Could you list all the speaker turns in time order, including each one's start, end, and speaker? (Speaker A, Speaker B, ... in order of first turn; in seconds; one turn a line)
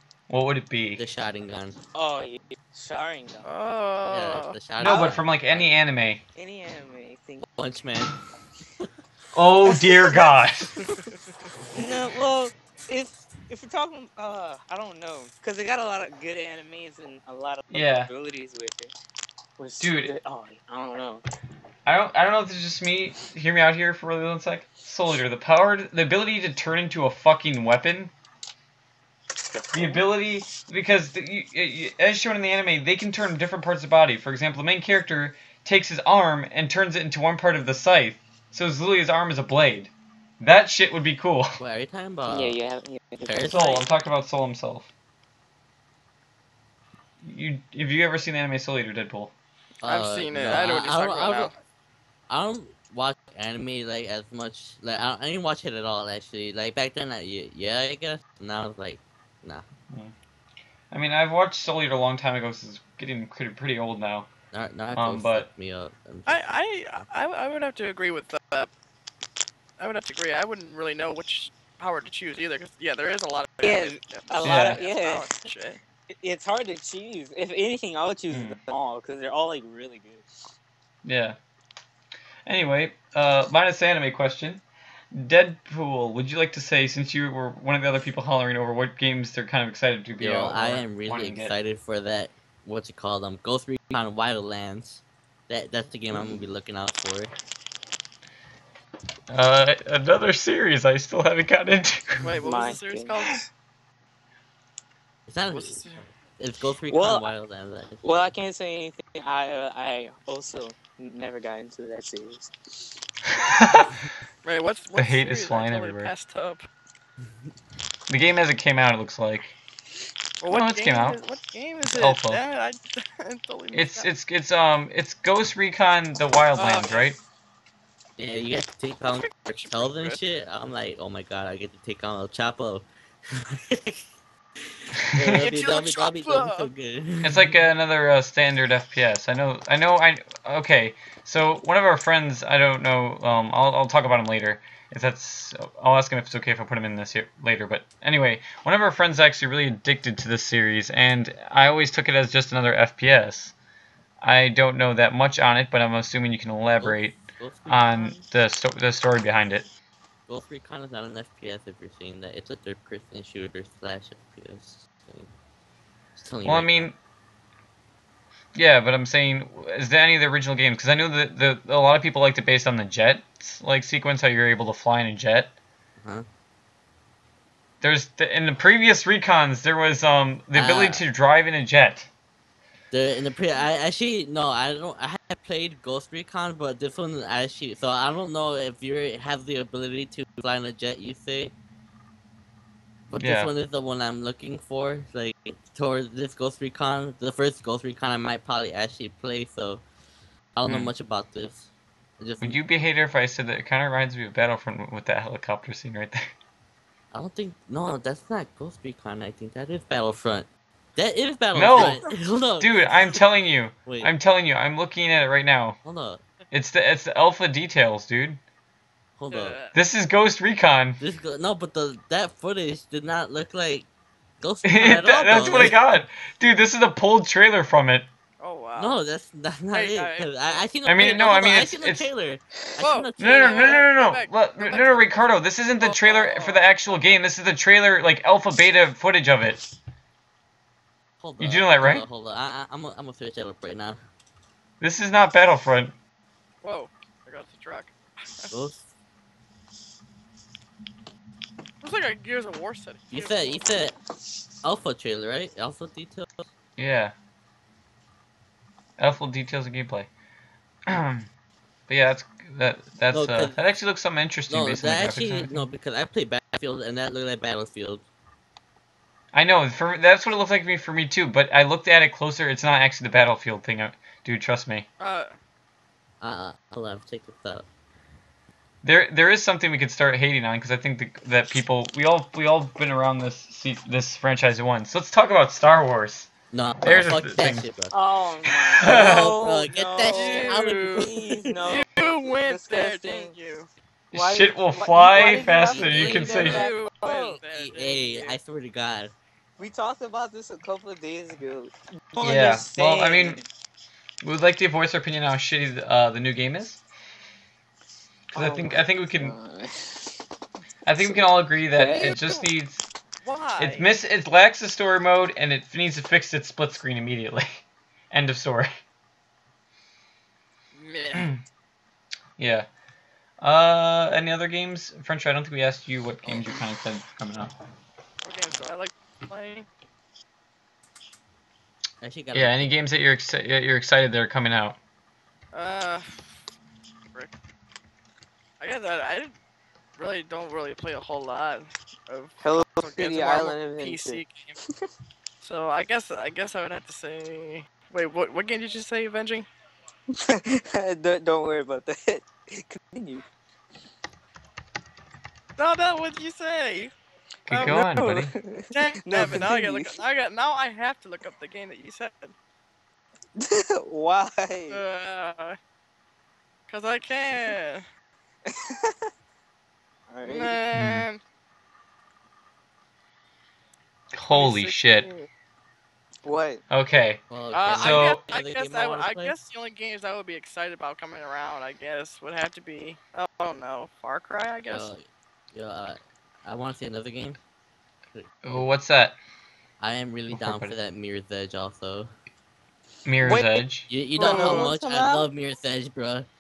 Speaker A: 0.3-1.0
Speaker B: 1.0-1.8
Speaker C: 1.9-3.5
Speaker D: 3.5-4.6
Speaker B: 4.1-5.7
Speaker A: 4.8-6.2
Speaker C: 4.8-5.2
Speaker C: 6.3-7.5
Speaker B: 7.4-8.2
Speaker A: 9.3-10.7
Speaker C: 9.7-11.1
Speaker C: 11.7-18.9
Speaker A: 17.7-18.1
Speaker C: 19.6-21.2
Speaker A: 19.8-20.1
Speaker A: 21.9-28.1
Speaker C: 29.6-30.1
Speaker A: 29.7-41.6
Speaker B: 41.6-42.6
Speaker C: 42.3-43.9
Speaker B: 43.2-43.7
Speaker A: 43.5-44.9
Speaker A: 47.2-49.3
Speaker B: 49.8-51.5
Speaker D: 49.9-51.5
Speaker B: 52.3-59.6
Speaker A: 60.9-64.3
Speaker B: 64.5-66.4
Speaker A: 64.9-65.5
Speaker D: 66.3-68.7
Speaker D: 69.8-75.8
Speaker C: 73.6-75.3
Speaker A: 74.4-74.8
Speaker C: 76.1-80.3
Speaker A: 78.3-78.6
Speaker A: 81.0-81.4
Speaker A: 82.5-91.5
Speaker B: 90.2-97.3
Speaker C: 96.1-96.5
Speaker A: 99.3-102.3
Speaker D: 102.2-103.5
Speaker C: 102.4-103.4
Speaker B: 105.3-108.3
Speaker D: 105.5-106.0
Speaker C: 106.9-107.3
Speaker C: 108.0-112.5
Speaker A: 113.3-114.0
Speaker D: 114.4-116.6
Speaker A: 115.0-116.1
Speaker A: 118.1-119.5
Speaker D: 120.4-124.1
Speaker A: 120.5-121.2
Speaker A: 121.9-122.4
Speaker A: 123.7-127.2
Speaker D: 126.6-127.1
Speaker B: 128.2-134.0
Speaker D: 129.6-130.2
Speaker A: 135.1-135.5
Speaker B: 135.1-137.6
Speaker D: 135.4-136.7
Speaker A: 137.2-153.5
Speaker A: 154.2-159.7
Speaker B: 156.8-158.2
Speaker B: 160.3-165.3
Speaker B: 166.2-166.9
Speaker A: 166.4-167.0
Speaker A: 168.6-175.6
Speaker B: 176.0-176.3
Speaker A: 177.8-182.1
Speaker B: 180.5-181.0
Speaker B: 182.9-191.5
Speaker B: 193.1-199.8
Speaker A: 193.2-193.5
Speaker B: 200.6-202.6
Speaker A: 200.7-200.9
Speaker A: 202.4-206.3
Speaker B: 207.1-213.2
Speaker A: 211.5-212.0
Speaker A: 212.6-215.8
Speaker B: 213.8-214.1
Speaker B: 215.8-216.2
Speaker A: 216.5-218.4
Speaker B: 219.2-219.6
Speaker D: 219.3-219.8
Speaker A: 219.7-221.0
Speaker B: 221.0-223.9
Speaker B: 224.4-225.8
Speaker A: 224.7-228.1
Speaker D: 228.4-229.0
Speaker B: 228.8-233.8
Speaker D: 229.7-231.1
Speaker A: 230.8-232.1
Speaker D: 232.8-235.1
Speaker A: 233.2-239.6
Speaker D: 235.8-237.2
Speaker B: 241.2-244.0
Speaker A: 241.4-242.1
Speaker A: 244.8-245.9
Speaker D: 246.6-248.5
Speaker B: 248.5-248.9
Speaker D: 251.8-253.6
Speaker B: 253.1-254.0
Speaker B: 254.6-256.5
Speaker A: 256.8-257.1
Speaker A: 259.0-260.1
Speaker A: 260.9-261.3
Speaker A: 261.9-265.6
Speaker B: 263.1-263.6
Speaker B: 264.5-268.0
Speaker A: 269.3-274.9
Speaker D: 275.0-275.3
Speaker B: 276.2-277.7
Speaker A: 278.8-286.3
Speaker B: 286.5-287.9
Speaker A: 286.8-287.7
Speaker C: 287.9-293.3
Speaker A: 288.8-289.4
Speaker B: 288.8-291.6
Speaker D: 290.0-291.1
Speaker D: 291.7-293.7
Speaker A: 294.1-296.6
Speaker C: 294.1-297.4
Speaker B: 295.7-296.7
Speaker D: 296.1-298.4
Speaker B: 297.4-299.1
Speaker C: 299.6-303.4
Speaker A: 302.2-303.4
Speaker A: 304.2-306.8
Speaker A: 308.3-309.4
Speaker C: 308.4-310.1
Speaker A: 310.9-312.9
Speaker C: 311.0-312.2
Speaker D: 311.9-312.4
Speaker D: 313.2-313.9
Speaker A: 313.6-317.6
Speaker A: 318.1-318.7
Speaker D: 320.7-321.3
Speaker A: 321.1-321.4
Speaker A: 322.4-322.7
Speaker A: 323.4-327.5
Speaker C: 326.2-326.6
Speaker D: 328.2-329.7
Speaker B: 332.0-332.8
Speaker A: 332.3-334.8
Speaker D: 335.5-336.3
Speaker D: 338.6-339.3
Speaker D: 340.0-344.6
Speaker C: 342.4-344.2
Speaker D: 345.4-349.5
Speaker C: 350.1-353.2
Speaker D: 355.6-356.9
Speaker A: 357.5-358.3
Speaker D: 357.5-357.9
Speaker C: 357.6-360.0
Speaker D: 358.7-362.3
Speaker C: 363.4-364.8
Speaker D: 364.7-365.6
Speaker D: 366.7-367.9
Speaker C: 368.5-369.1
Speaker C: 370.1-370.6
Speaker D: 370.2-371.2
Speaker A: 370.7-371.1
Speaker A: 374.1-375.1
Speaker D: 374.3-375.3
Speaker C: 376.2-376.6
Speaker A: 376.7-377.2
Speaker B: 377.3-379.4
Speaker D: 377.5-384.9
Speaker A: 377.8-378.2
Speaker B: 384.7-387.4
Speaker B: 388.1-388.7
Speaker A: 388.4-389.2
Speaker B: 389.8-392.1
Speaker A: 390.3-390.7
Speaker A: 393.1-393.9
Speaker C: 393.2-395.3
Speaker B: 393.9-396.3
Speaker D: 394.2-394.7